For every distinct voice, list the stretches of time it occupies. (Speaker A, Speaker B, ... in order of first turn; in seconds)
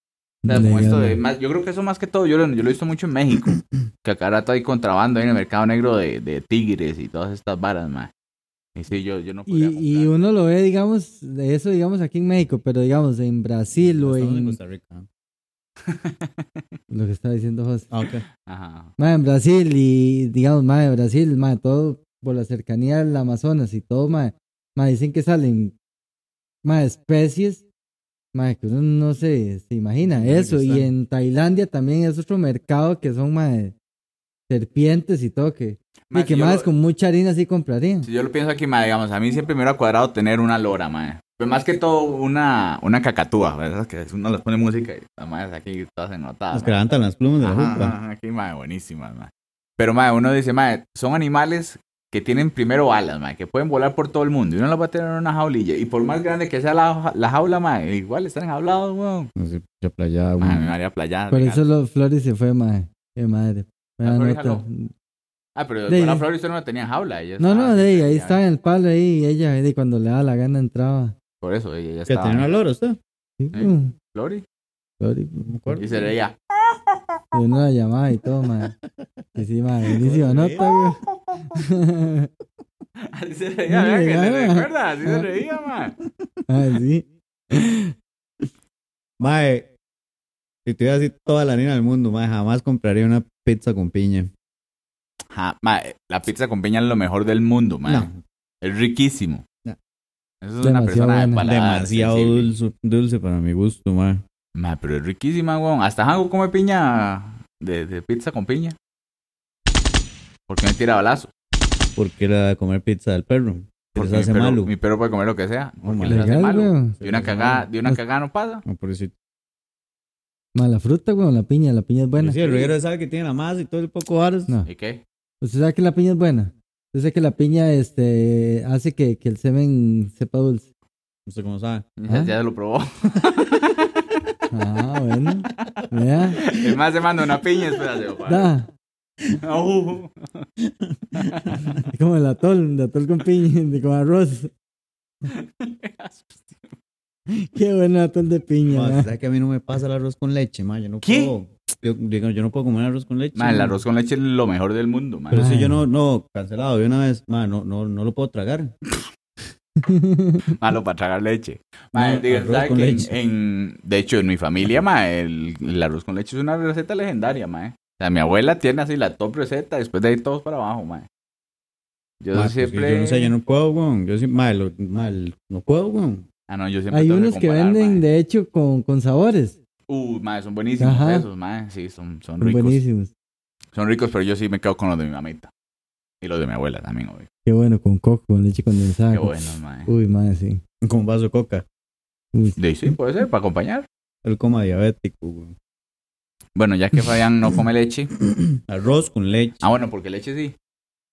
Speaker A: 0.5-1.2, 9.5-14.6, 16.9-17.9, 19.0-25.7, 26.6-27.6, 28.3-33.8, 34.5-38.1, 61.3-64.9, 65.9-66.3, 67.4-71.1, 73.4-73.9, 75.0-75.5, 77.3-78.8, 79.4-81.0, 81.5-82.3, 83.7-85.3, 86.5-87.9, 100.6-101.5, 116.1-118.0, 120.5-122.4, 125.4-130.7, 134.5-136.4, 138.3-138.7, 141.9-144.5, 147.3-149.1, 155.3-155.8, 159.8-160.5, 176.9-179.6, 180.8-181.3, 182.4-183.1, 187.5-190.6, 192.3-192.6
Speaker B: 0.5-8.1, 8.8-10.1, 15.9-16.6, 18.4-18.9, 36.1-36.7, 38.0-46.8, 47.4-59.3, 60.4-61.6, 64.0-64.6, 65.6-68.4, 71.4-72.5, 73.5-74.4, 75.8-77.2, 80.6-81.6, 83.0-86.0, 95.3-98.1, 98.6-99.5, 100.4-102.5, 104.6-108.8, 110.5-111.3, 113.9-118.6, 122.4-122.7, 124.7-125.0, 132.0-134.2, 135.5-138.5, 139.3-140.5, 141.2-141.8, 145.3-146.8, 151.0-151.3, 153.4-155.4, 160.6-171.1, 172.2-173.3, 176.5-178.1, 179.9-182.8, 183.7-185.5, 186.2-187.3, 189.1-189.9, 192.6-193.9, 196.6-198.1, 199.6-200.6
Speaker C: 13.8-15.1, 17.9-18.2, 30.0-30.9, 46.5-47.9, 59.4-60.7, 72.1-73.0, 75.4-76.1, 79.9-80.7, 89.2-89.7, 90.7-94.3, 97.9-98.2, 101.4-104.2, 112.0-114.7, 115.8-116.2, 117.0-117.6, 118.7-119.1, 122.2-124.5, 131.3-131.9, 140.6-141.9, 148.7-153.8, 155.3-158.7, 161.9-163.1, 172.3-176.2, 190.8-191.7, 194.2-195.6, 198.2-199.6